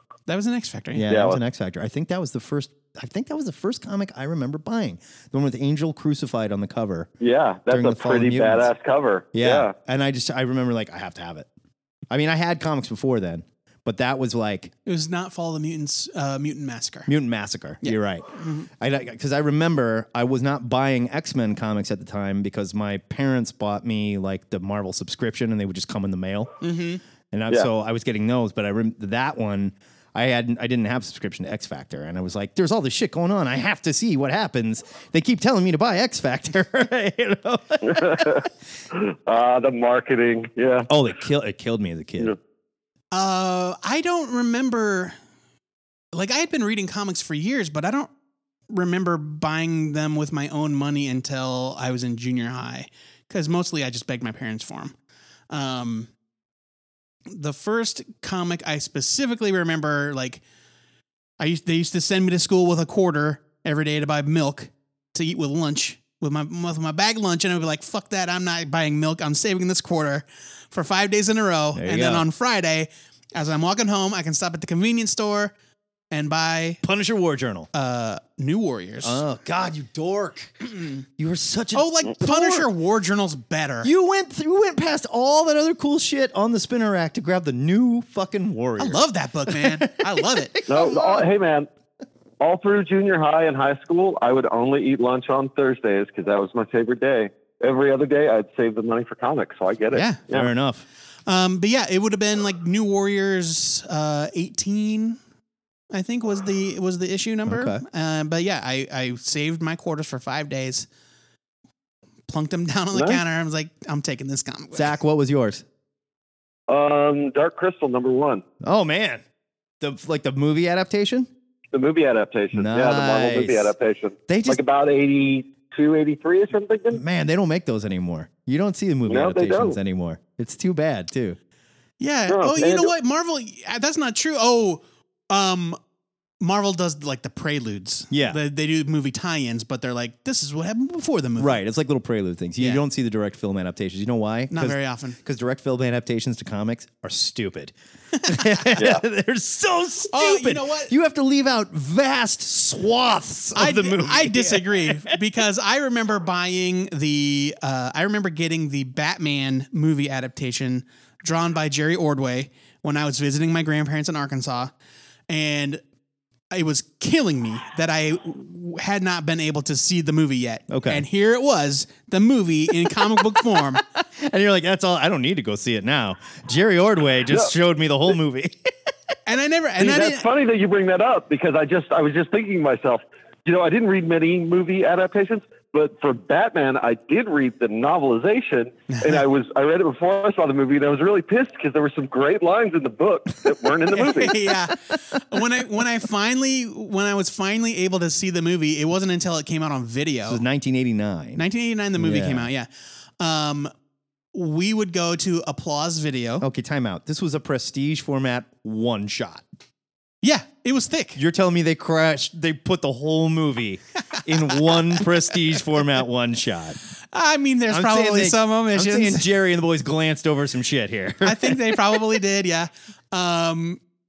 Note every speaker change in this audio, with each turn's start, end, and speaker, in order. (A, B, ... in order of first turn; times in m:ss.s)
0:00.3-0:01.1 A
0:00.9-0:07.1 B
0:01.1-0:01.4 C
0:07.2-0:09.7 C
0:07.7-0:08.7 B
0:09.3-0:11.5 B
0:12.1-0:14.7 B
0:14.9-0:17.1 A
0:17.1-0:18.3 B
0:17.8-0:18.7 A
0:18.8-0:26.5 B
0:26.6-0:27.0 A
0:27.3-0:38.4 B
0:37.9-0:38.4 C
0:38.9-0:40.9 C
0:40.9-0:42.4 B
0:43.1-0:45.2 A
0:46.1-0:48.1 A
0:48.7-0:54.9 A
0:55.5-0:56.1 A
0:57.3-1:00.4 A
1:01.4-1:15.5 A
1:11.8-1:12.3 B
1:16.1-1:16.8 A
1:16.8-1:17.7 B
1:17.7-1:19.2 A
1:19.0-1:20.5 B
1:21.2-1:22.7 B
1:21.8-1:23.9 A
1:23.8-1:31.3 B
1:28.8-1:30.6 A
1:30.7-1:31.7 C
1:32.4-1:40.5 C
1:39.9-1:40.2 A
1:40.3-1:40.8 B
1:41.3-1:45.2 A
1:45.9-1:50.9 A
1:47.5-1:47.8 B
1:52.3-1:55.0 A
1:52.9-1:53.2 C
1:54.7-1:55.6 B
1:56.7-1:58.4 C
1:58.6-1:59.2 B
1:59.8-2:01.3 B
2:01.7-2:07.0 C
2:02.5-2:03.7 B
2:04.3-2:04.6 B
2:06.9-2:11.4 B
2:09.1-2:09.8 C
2:12.0-2:15.8 A
2:12.3-2:12.9 C
2:16.4-2:21.6 A
2:18.1-2:18.4 B
2:21.4-2:27.7 B
2:24.5-2:25.2 A
2:28.2-2:28.7 A
2:28.3-2:35.0 B
2:28.8-2:29.0 C
2:30.1-2:30.9 A
2:33.6-2:44.7 A
2:45.3-2:45.8 A
2:46.5-2:53.8 A
2:50.7-2:51.0 B
2:53.6-2:58.7 B
2:59.3-3:00.3 A
2:59.8-3:14.4 C
3:08.9-3:09.2 A
3:13.9-3:20.4 A
3:20.3-3:21.4 B
3:21.4-3:22.7 A
3:22.0-3:22.5 B
3:23.2-3:23.7 A
3:24.3-3:26.4 A
3:26.4-3:29.4 B
3:30.2-3:31.2 A
3:31.2-3:36.8 B
3:34.5-3:34.8 A
3:37.1-3:39.3 A
3:37.7-3:42.0 B
3:41.2-3:43.8 A